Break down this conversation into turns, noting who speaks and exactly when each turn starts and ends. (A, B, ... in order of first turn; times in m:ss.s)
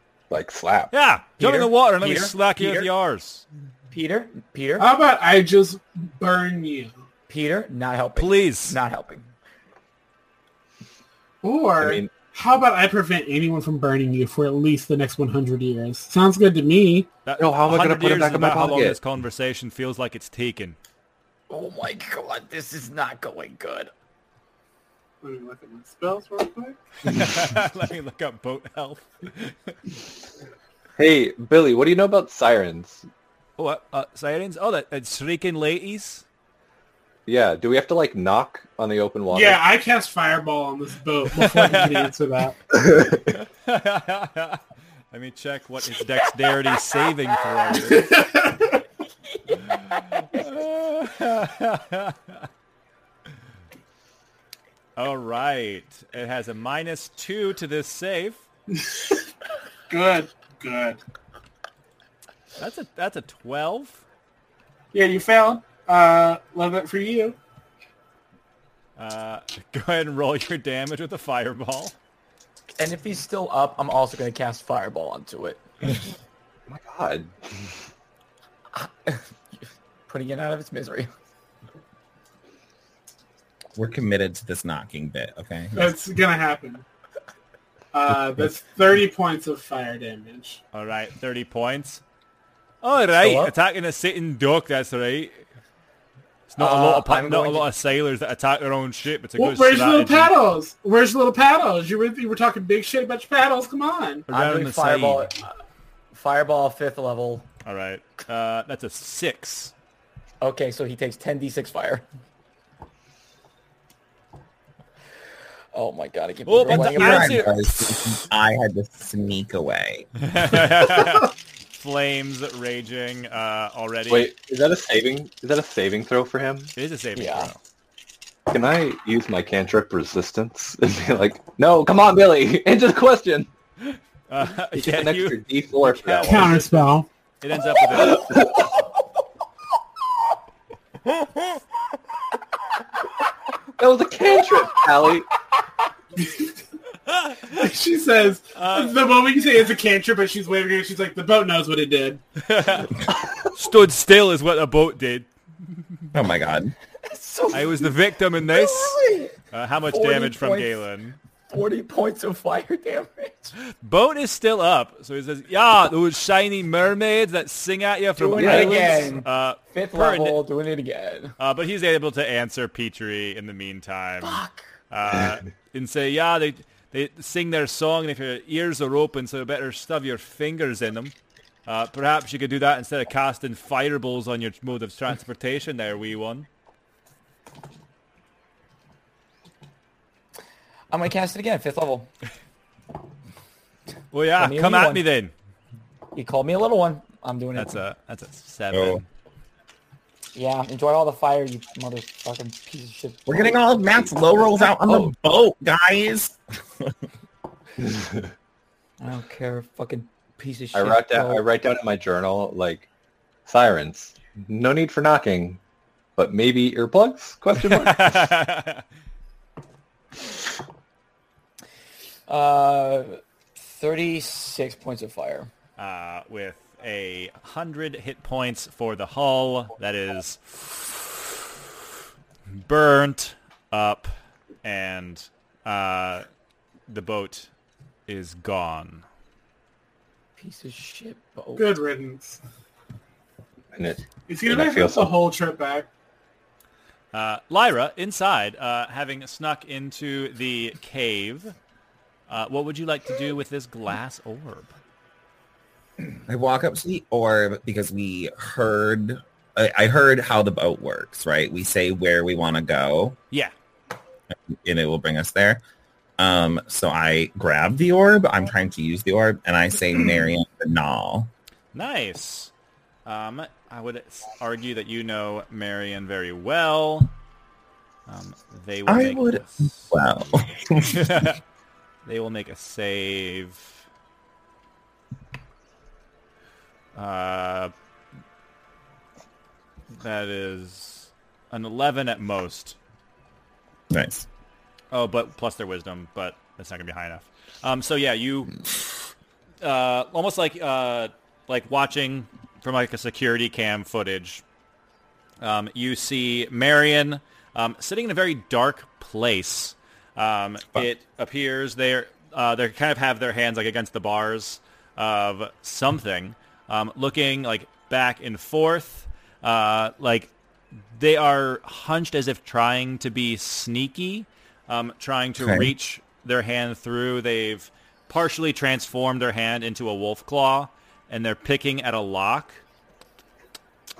0:00.3-0:00.9 A
0:00.9-0:03.4 B
0:01.4-0:02.9 C
0:03.9-0:04.9 C
0:04.8-0:07.0 D
0:07.3-0:09.3 C
0:08.2-0:08.8 B
0:11.4-0:17.1 D
0:11.8-0:12.1 A
0:17.2-0:20.8 B
0:17.4-0:19.0 A
0:21.5-0:23.9 C
0:25.2-0:27.1 D
0:27.0-0:29.8 B
0:31.0-0:33.0 A
0:33.6-0:36.2 B
0:37.3-0:39.6 A
0:39.3-0:42.6 D
0:41.3-0:42.1 B
0:42.7-0:43.4 A
0:43.4-0:44.6 B
0:45.1-0:48.1 B
0:47.7-0:48.8 D
0:49.5-0:50.4 C
0:50.2-0:52.4 B
0:55.0-0:58.4 B
0:58.7-0:59.2 D
0:59.9-1:01.0 D
1:02.6-1:04.0 B
1:04.9-1:07.4 D
1:09.0-1:11.9 B
1:12.8-1:15.9 C
1:16.7-1:17.4 A
1:18.7-1:21.1 C
1:23.7-1:25.9 E
1:25.7-1:26.8 D
1:27.9-1:30.6 D
1:30.7-1:32.0 B
1:32.8-1:35.4 B
1:33.2-1:33.5 C
1:36.5-1:40.3 B
1:36.6-1:37.7 C
1:39.4-1:44.3 D
1:44.3-1:45.3 B
1:44.3-1:45.5 C
1:46.1-1:47.4 C
1:47.6-1:49.7 B
1:50.4-1:52.0 C
1:55.7-1:57.5 C
1:56.5-1:58.2 B
1:56.7-2:00.1 E
2:00.2-2:04.3 B
2:04.1-2:06.7 A
2:06.8-2:07.6 B
2:07.1-2:07.5 C
2:08.5-2:13.5 A
2:13.9-2:16.6 B
2:14.7-2:16.6 A
2:16.3-2:17.1 D
2:17.4-2:18.5 B
2:17.9-2:18.7 A
2:23.8-2:25.3 A
2:26.2-2:26.6 D
2:27.1-2:27.5 B
2:27.5-2:32.2 D
2:28.5-2:29.0 B
2:32.4-2:32.9 B
2:33.5-2:35.3 B
2:36.1-2:36.7 E
2:37.0-2:40.8 C
2:37.5-2:39.0 B
2:39.5-2:41.2 B
2:41.5-2:43.5 C
2:43.8-2:50.4 B
2:48.2-2:51.3 C
2:48.4-2:49.0 A
2:51.4-3:01.1 B
2:54.2-2:54.6 C
3:01.6-3:06.5 B
3:10.9-3:12.1 C
3:14.1-3:15.3 B
3:14.4-3:15.0 C
3:16.1-3:17.8 C
3:17.6-3:19.0 B
3:18.7-3:19.0 E
3:20.3-3:24.1 C
3:23.3-3:26.9 E
3:24.8-3:25.1 A
3:27.8-3:28.2 A
3:29.0-3:31.4 C
3:30.7-3:32.9 A
3:33.4-3:35.6 A
3:36.2-3:38.3 A
3:37.6-3:38.8 B
3:42.3-3:45.5 C
3:45.8-3:51.5 B
3:52.5-3:54.1 B
3:54.6-3:56.2 B
3:56.9-3:57.5 B
3:58.1-3:59.0 B
4:00.4-4:01.7 C
4:01.6-4:02.4 D
4:03.7-4:05.1 A
4:04.3-4:05.9 D
4:07.1-4:11.5 B
4:12.3-4:14.7 B
4:16.2-4:23.2 E
4:24.5-4:25.6 E
4:26.2-4:31.3 E
4:31.7-4:32.5 B
4:33.0-4:37.1 B
4:38.1-4:39.9 B
4:38.9-4:41.3 E
4:40.9-4:41.4 B
4:42.0-4:43.8 B
4:46.9-4:47.7 B
4:50.0-4:52.8 B
4:53.9-4:54.3 E
4:54.9-4:58.8 B
4:59.6-5:04.4 B
5:05.4-5:20.3 B
5:20.9-5:32.6 B
5:25.4-5:25.7 E